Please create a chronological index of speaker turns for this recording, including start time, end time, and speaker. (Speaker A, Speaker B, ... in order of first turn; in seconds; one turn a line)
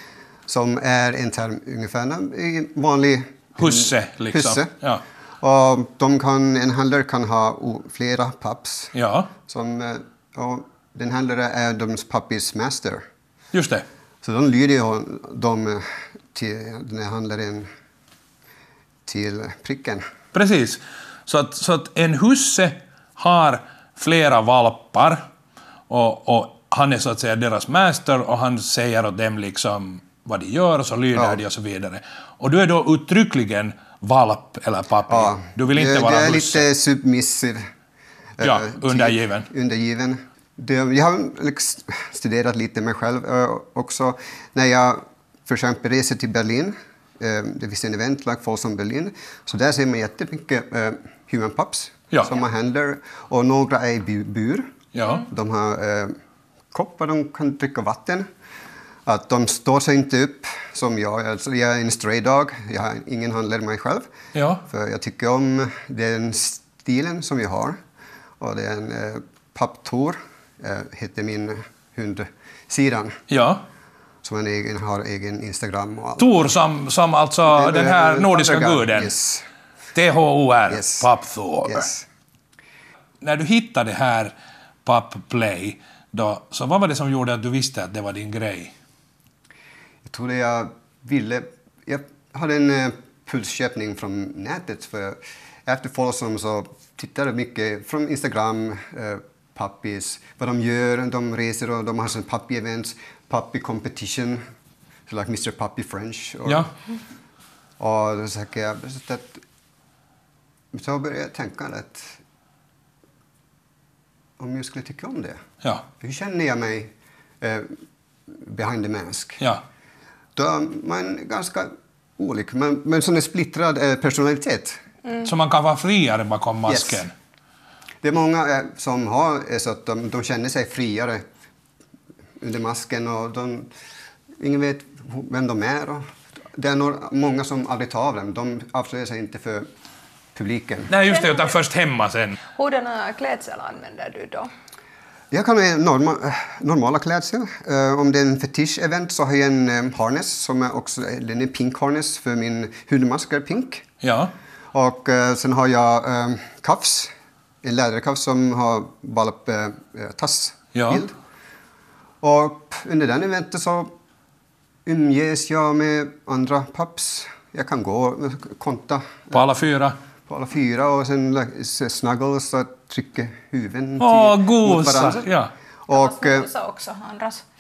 Speaker A: 0.5-4.7
Speaker B: 3.6-5.0
Speaker A: 5.4-8.9
Speaker B: 8.9-9.3
Speaker A: 9.5-13.1
Speaker B: 13.5-13.8
Speaker A: 14.2-17.7
Speaker A: 19.1-20.0
Speaker B: 20.3-25.2
Speaker B: 25.9-36.7
Speaker A: 31.1-31.4
Speaker A: 35.1-37.7
Speaker A: 38.4-56.2
Speaker B: 38.4-39.5
Speaker B: 55.0-55.2
Speaker A: 56.7-58.3
Speaker A: 59.0-64.1
Speaker B: 64.3-64.6
Speaker A: 64.7-67.8
Speaker A: 68.4-73.2
Speaker B: 73.3-73.6
Speaker A: 74.2-76.4
Speaker B: 76.2-79.1
Speaker A: 77.5-79.5
Speaker B: 80.0-81.9
Speaker A: 80.7-81.1
Speaker A: 81.7-82.0
Speaker B: 83.2-84.3
Speaker B: 84.8-88.7
Speaker A: 90.0-104.4
Speaker A: 105.1-106.7
Speaker A: 107.8-109.4
Speaker A: 110.7-112.2
Speaker A: 114.4-115.4
Speaker A: 116.0-119.4
Speaker A: 120.4-124.8
Speaker B: 125.2-127.1
Speaker A: 126.7-127.0
Speaker A: 128.0-131.2
Speaker A: 132.4-133.7
Speaker A: 134.4-139.7
Speaker A: 140.3-140.9
Speaker B: 140.9-142.4
Speaker C: 141.0-141.6
Speaker C: 142.6-144.5
Speaker A: 145.3-153.8
Speaker B: 154.0-154.3
Speaker A: 154.7-157.1
Speaker A: 157.6-161.1
Speaker B: 160.7-161.0
Speaker A: 162.2-163.9
Speaker A: 164.8-169.5
Speaker B: 169.3-169.9
Speaker A: 170.3-175.3
Speaker B: 174.0-175.5
Speaker A: 175.9-176.5
Speaker C: 175.9-177.4